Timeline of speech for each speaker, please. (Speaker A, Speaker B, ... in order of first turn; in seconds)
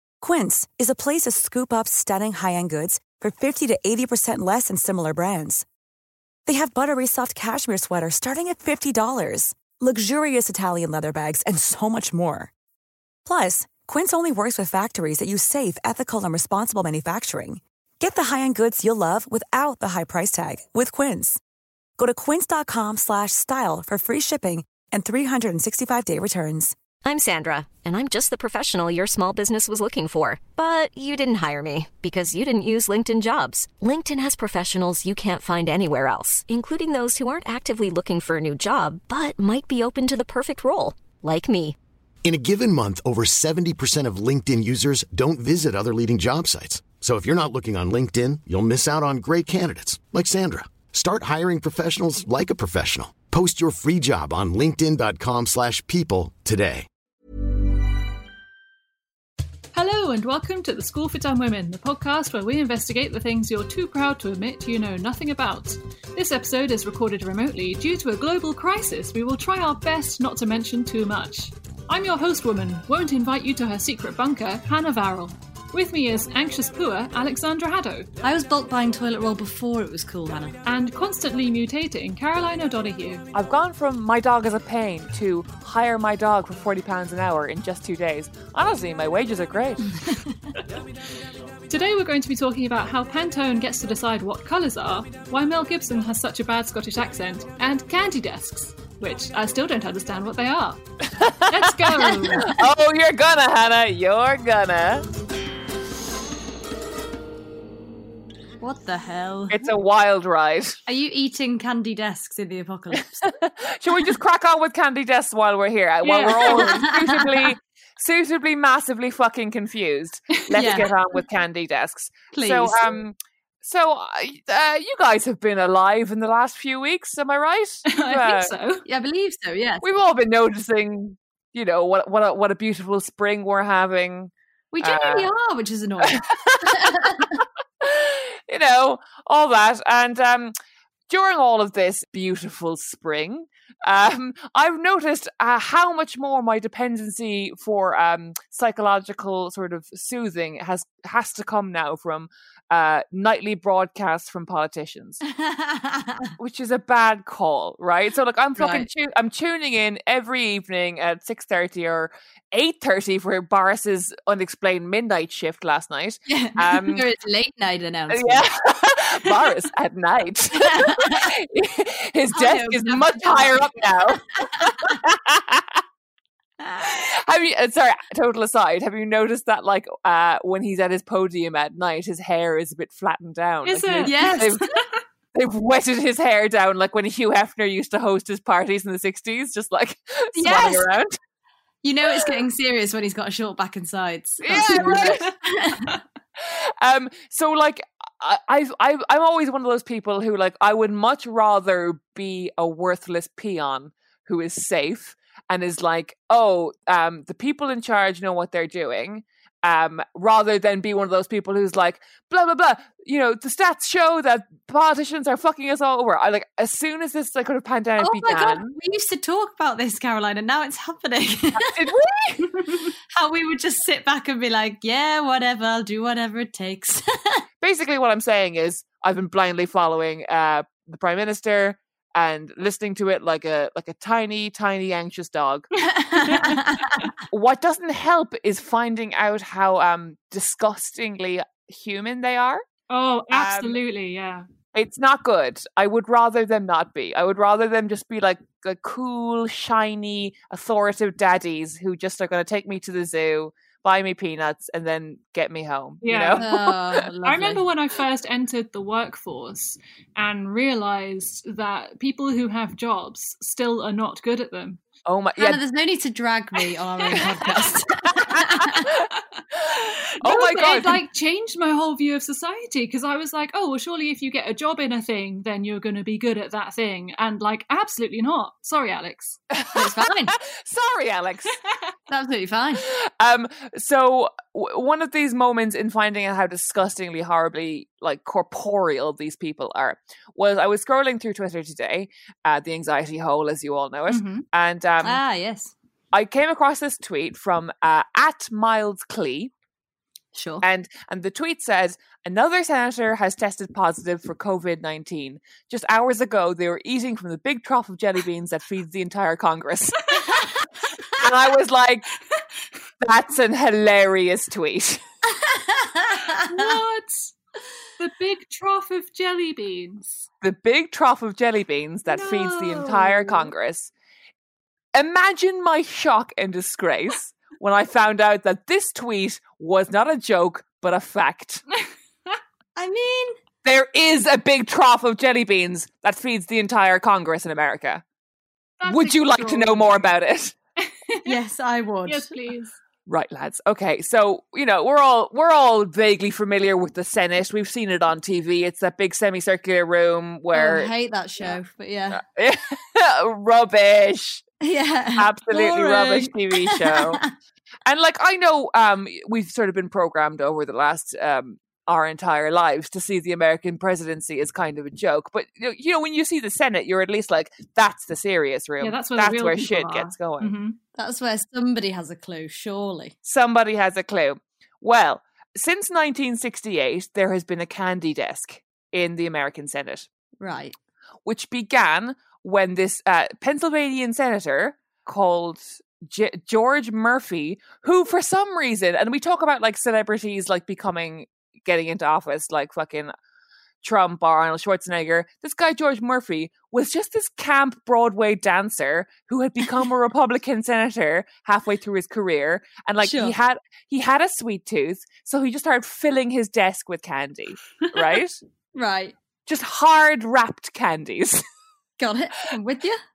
Speaker A: 0.2-5.7, 6.5-12.5, 13.2-21.4, 22.0-26.8
Speaker B: 27.0-41.8
Speaker C: 42.2-56.9
Speaker D: 59.7-78.1, 80.7-83.2, 91.7-100.8, 101.5-102.6, 116.0-116.8, 120.5-120.8, 127.9-128.8, 183.6-184.6, 194.7-195.1, 236.2-236.6, 242.9-244.4, 256.0-256.4, 257.2-264.8, 269.8-279.4, 294.1-294.4, 316.3-317.3, 318.0-320.3, 322.4-323.1, 338.8-340.1, 340.8-341.3, 342.1-342.8, 368.8-370.8
Speaker E: 78.2-80.5, 89.9-90.4, 108.6-109.7, 110.9-113.3, 116.4-117.5, 120.5-120.9, 122.3-123.0, 128.8-129.8, 134.7-137.4, 155.3-156.3, 158.6-158.9, 166.3-168.4, 170.5-171.3, 172.3-175.0, 176.6-176.9, 184.0-184.5, 190.3-190.9, 191.8-195.9, 218.0-221.7, 223.1-227.4, 235.8-237.1, 256.4-257.6, 265.4-268.9, 270.3-270.9, 279.7-280.3, 282.1-282.9, 295.0-295.7, 300.3-300.6, 315.3-316.8, 332.8-333.4, 341.2-342.3, 350.5-352.2, 354.6-357.3, 370.9-373.1, 380.4-380.7, 403.0-403.4, 408.7-409.1, 412.0-413.0
Speaker F: 83.3-89.9, 101.2-105.0, 109.5-110.8, 113.4-128.5, 129.8-135.3, 136.0-137.2, 137.8-140.5, 141.1-155.2, 156.4-167.0, 168.1-175.8, 176.8-184.6, 185.3-191.2, 194.4-195.3, 196.4-218.7, 221.5-222.8, 227.6-235.7, 237.3-242.6, 243.3-243.8, 244.7-256.8, 265.0-265.6, 270.2-270.9, 279.6-281.5, 282.8-295.2, 296.1-299.5, 300.6-312.1, 313.0-315.0, 320.4-323.9, 324.9-331.6, 333.6-338.0, 338.8-340.5, 343.1-350.9, 352.1-354.4, 355.2-357.2, 357.8-370.5, 373.2-380.1, 381.2-393.1, 393.8-408.4, 409.4-411.4